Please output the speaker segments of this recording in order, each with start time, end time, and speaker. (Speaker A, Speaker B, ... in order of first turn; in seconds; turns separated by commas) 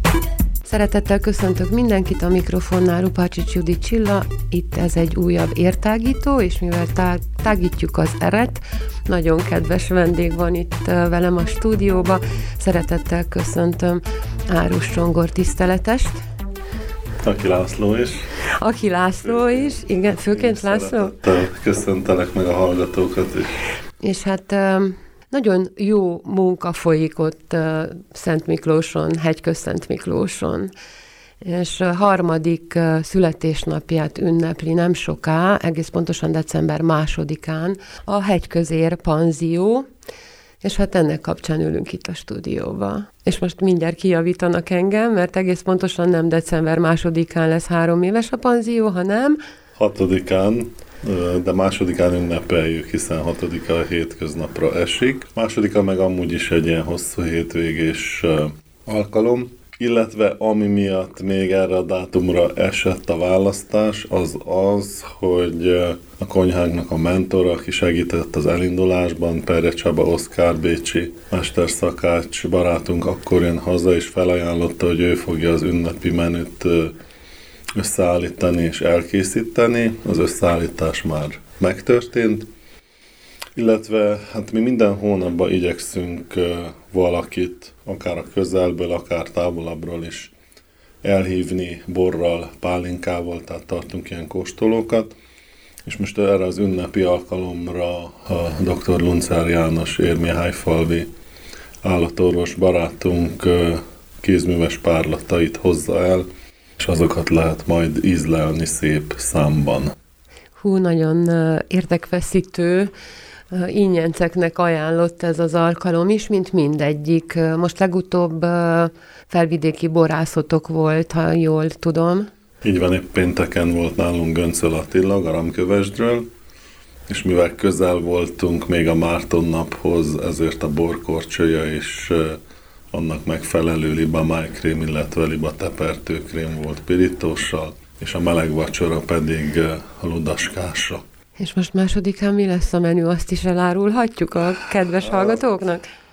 Speaker A: 0.6-16.2, Speaker B: 17.2-18.3, Speaker A: 18.6-21.1, Speaker B: 19.2-23.6, Speaker A: 24.0-30.7, Speaker A: 31.4-39.9, Speaker A: 40.6-49.4, Speaker B: 49.8-76.9, Speaker B: 77.8-82.5, Speaker B: 83.5-90.3, Speaker B: 91.0-95.1, Speaker B: 95.8-101.1, Speaker B: 101.8-106.2, Speaker B: 106.8-109.9, Speaker A: 110.6-112.9, Speaker A: 113.5-122.3, Speaker B: 122.6-126.2, Speaker B: 127.1-132.4, Speaker B: 132.9-141.0, Speaker A: 141.4-145.9, Speaker B: 145.0-145.5